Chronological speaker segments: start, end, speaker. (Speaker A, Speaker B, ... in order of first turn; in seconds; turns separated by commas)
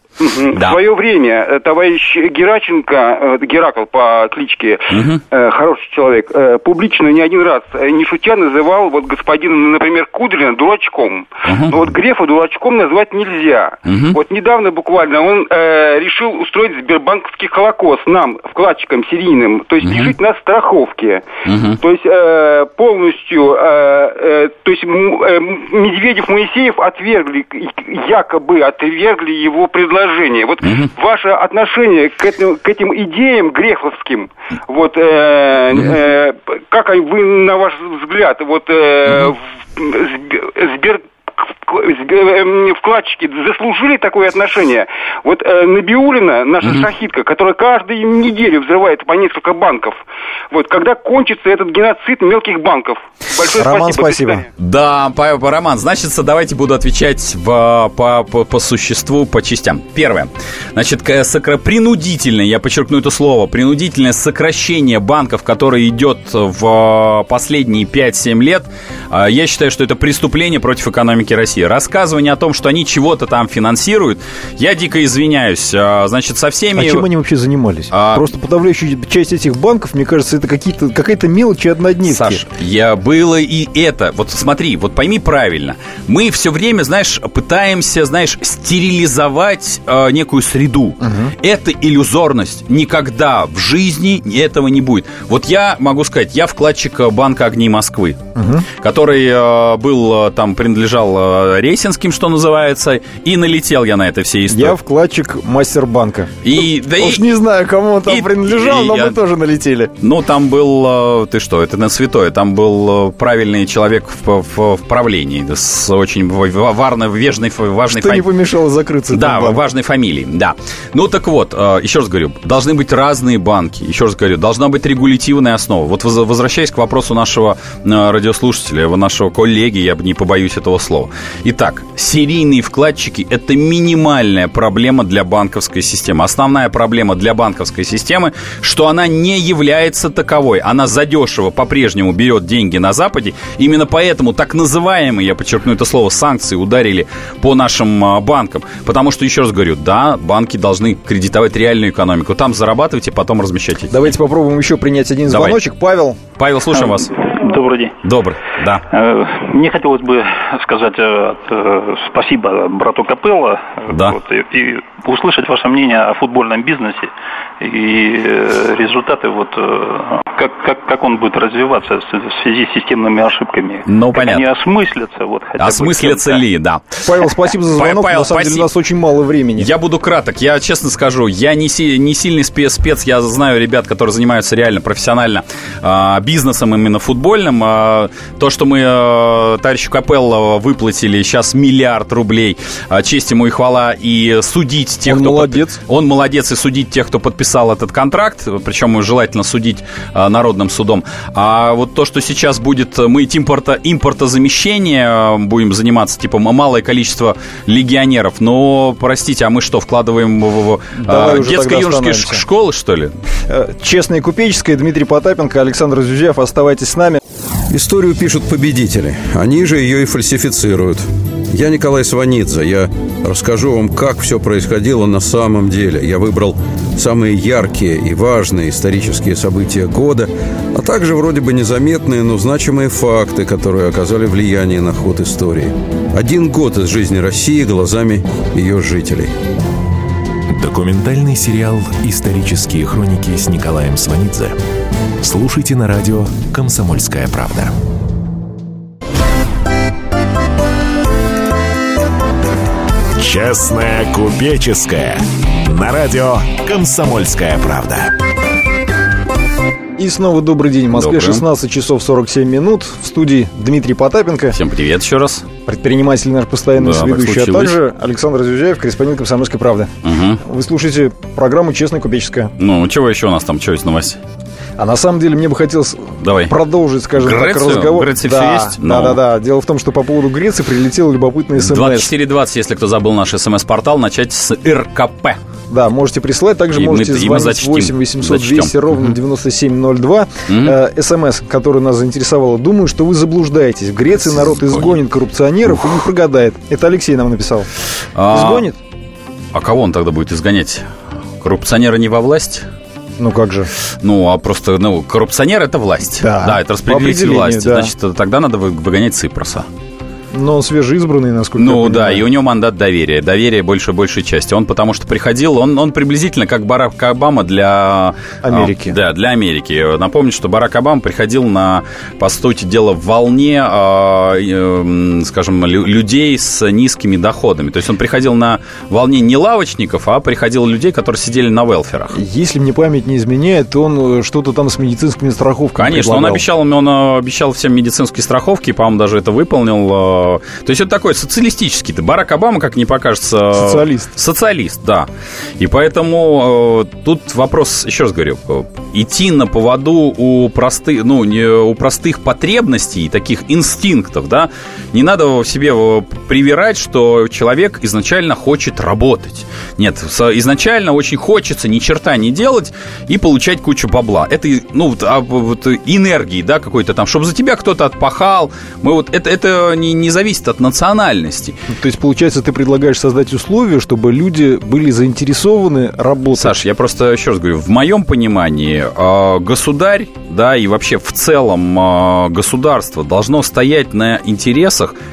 Speaker A: 0.2-21.2, Speaker B: 0.6-0.8, Speaker B: 4.9-5.2, Speaker B: 11.5-11.8, Speaker B: 13.9-14.2, Speaker B: 19.8-20.1, Speaker B: 21.5-21.8, Speaker A: 21.8-54.5, Speaker C: 53.5-54.5, Speaker B: 54.6-77.1, Speaker C: 76.8-82.4, Speaker B: 77.9-78.2, Speaker B: 82.1-104.8, Speaker C: 91.0-91.3, Speaker C: 98.4-98.7, Speaker C: 104.5-109.9, Speaker B: 106.4-107.3, Speaker B: 108.1-109.2, Speaker B: 110.0-118.3, Speaker C: 117.9-119.6, Speaker B: 119.1-154.0, Speaker C: 153.9-156.2, Speaker B: 155.3-155.6, Speaker B: 156.4-157.2, Speaker D: 156.8-157.9, Speaker B: 158.0-158.8, Speaker D: 158.9-167.1, Speaker B: 163.9-164.2, Speaker D: 167.6-176.4, Speaker B: 173.9-174.5, Speaker B: 175.6-177.0, Speaker C: 177.1-179.7, Speaker B: 177.8-178.7, Speaker B: 179.6-213.1, Speaker C: 195.1-195.8, Speaker C: 211.0-212.4, Speaker C: 213.5-217.2, Speaker E: 217.7-239.3, Speaker F: 240.5-244.6, Speaker F: 245.2-247.7, Speaker F: 253.2-258.1, Speaker C: 260.0-264.6, Speaker B: 260.9-261.4, Speaker B: 264.5-265.5, Speaker C: 265.6-269.9, Speaker B: 266.8-267.8, Speaker B: 270.0-270.4, Speaker C: 270.4-272.5, Speaker B: 272.6-274.2, Speaker C: 274.8-282.1, Speaker B: 276.2-276.5, Speaker B: 277.2-279.2, Speaker B: 281.6-285.4, Speaker C: 285.7-297.7, Speaker B: 286.7-289.1, Speaker B: 290.5-290.8, Speaker B: 294.2-295.0, Speaker B: 295.7-296.0, Speaker B: 298.2-298.7, Speaker C: 298.3-298.8, Speaker B: 299.5-300.9, Speaker B: 301.4-302.6, Speaker C: 303.2-303.7, Speaker B: 304.0-309.7, Speaker C: 306.2-307.9, Speaker C: 310.3-312.2, Speaker B: 311.6-332.2, Speaker C: 318.4-318.9, Speaker C: 332.1-336.4, Speaker B: 335.8-345.1, Speaker C: 343.6-344.1, Speaker B: 345.6-371.6, Speaker C: 371.7-376.6, Speaker B: 376.4-385.0